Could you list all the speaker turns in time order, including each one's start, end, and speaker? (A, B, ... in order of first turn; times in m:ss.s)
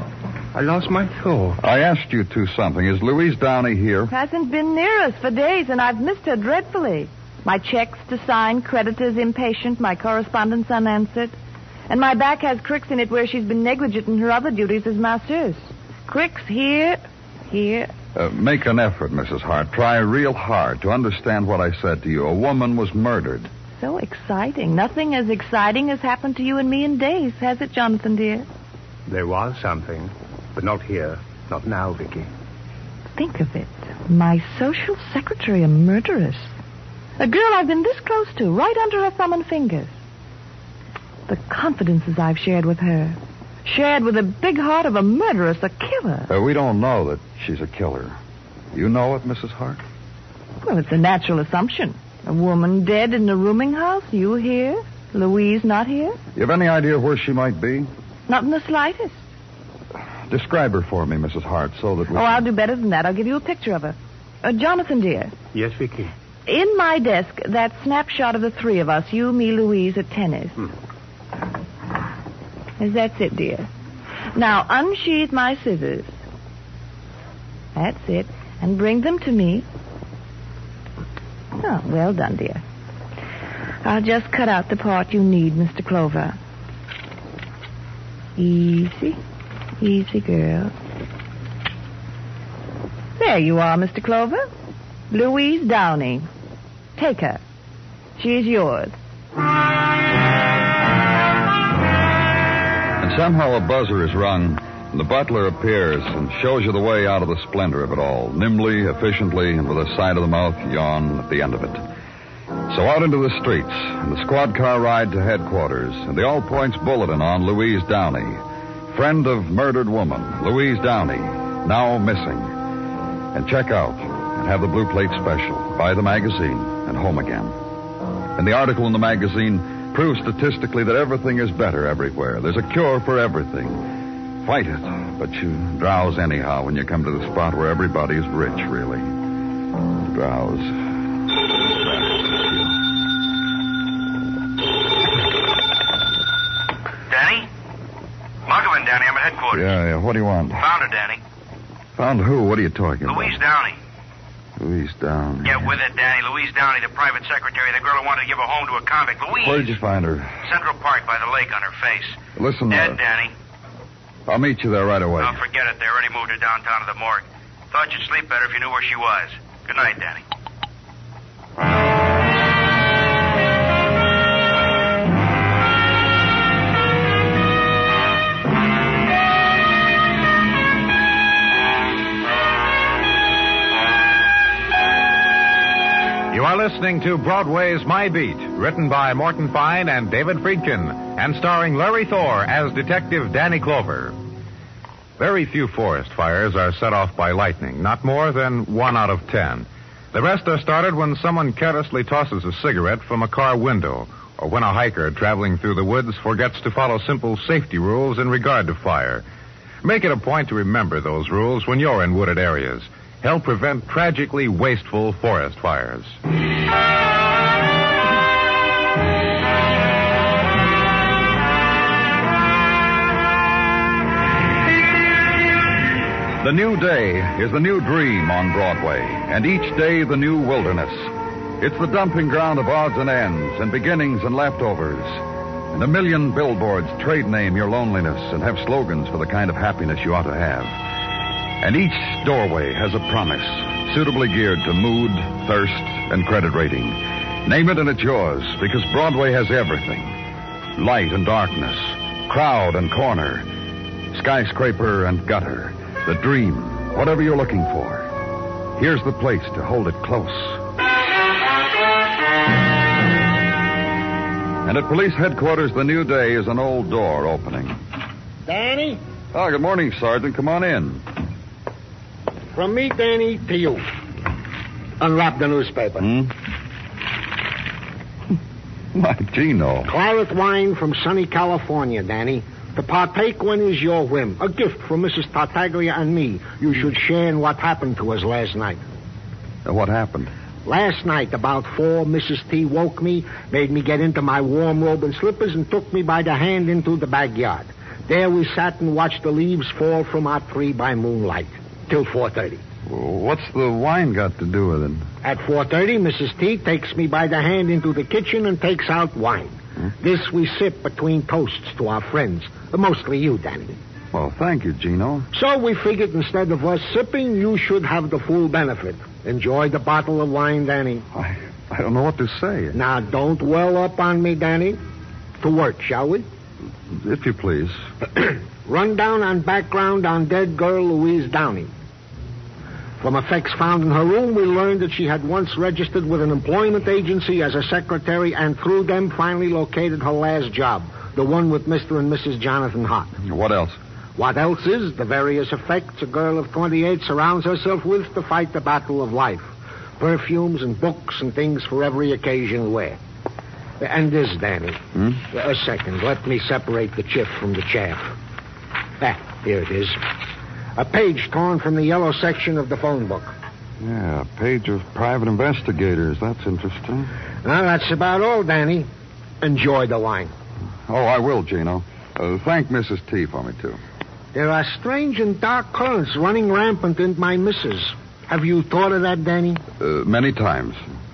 0:00.5-0:01.6 A
0:01.6-0:04.1 B
0:04.1-0:11.3 C
0:11.9-0:17.9 C
0:18.2-0:23.5 B
0:23.8-0:28.5 C
0:29.1-0:32.3 A
0:33.2-0:36.6 C
0:37.2-0:39.9 C
0:41.3-0:46.3 C
0:46.3-0:48.2 B
0:48.7-0:49.8 B
0:50.6-0:56.2 C
0:56.4-0:57.9 B
0:58.3-0:59.2 C
1:00.3-1:02.4 B
1:02.1-1:05.3 C
1:05.5-1:06.1 A
1:06.5-1:10.6 C
1:12.8-1:13.7 C
1:14.3-1:16.1 C
1:17.8-1:19.7 C
1:21.6-1:22.6 C
1:23.8-1:26.4 C
1:28.4-1:29.2 C
1:29.8-1:30.7 C
1:33.2-1:34.4 C
1:35.1-1:36.3 C
1:37.0-1:37.4 C
1:38.2-1:38.9 C
1:43.0-1:51.8 B
1:52.7-2:02.5 B
2:03.3-2:07.6 B
2:08.4-2:13.9 B
2:14.4-2:19.1 B
2:20.0-2:20.9 B
2:21.5-2:22.8 B
2:27.1-2:27.5 D
2:28.4-2:29.7 D
2:29.5-2:30.7 B
2:30.6-2:31.2 D
2:32.0-2:33.4 B
2:33.0-2:33.8 D
2:34.6-2:35.7 B
2:35.4-2:39.7 D
2:39.4-2:40.4 B
2:40.4-2:43.3 D
2:42.4-2:43.0 B
2:44.3-2:45.4 B
2:45.2-2:50.2 D
3:06.3-3:14.2 E
3:15.2-3:29.2 E
3:29.8-3:36.2 E
3:46.4-4:00.8 B
4:01.6-4:10.2 B
4:10.8-4:13.5 B
4:14.1-4:18.1 B
4:18.8-4:20.6 B
4:24.6-4:27.8 B
4:28.5-4:29.0 F
4:29.3-4:31.1 B
4:32.5-4:33.8 F
4:35.0-4:36.1 F
4:36.0-4:36.3 B
4:38.9-4:39.9 B
4:39.9-4:48.8 F
4:49.6-4:50.3 B
4:50.7-5:02.6 F
5:02.9-5:05.1 B
5:05.2-5:13.8 F
5:14.1-5:15.3 B
5:15.3-5:21.1 F
5:21.1-5:22.8 B
5:22.7-5:24.8 F
5:25.4-5:26.2 F
5:26.9-5:27.8 B
5:28.7-5:31.7 F
5:33.0-5:43.1 F
5:43.2-5:43.8 B
5:44.2-5:53.0 F
5:53.8-5:54.8 F
5:55.0-5:55.2 B
5:55.3-5:58.1 F
5:59.0-6:00.0 F
6:00.8-6:03.3 F
6:03.8-6:07.1 B
6:07.4-6:08.9 F
6:09.4-6:10.3 F
6:10.9-6:13.8 B
6:14.3-6:19.6 F
6:19.8-6:20.8 B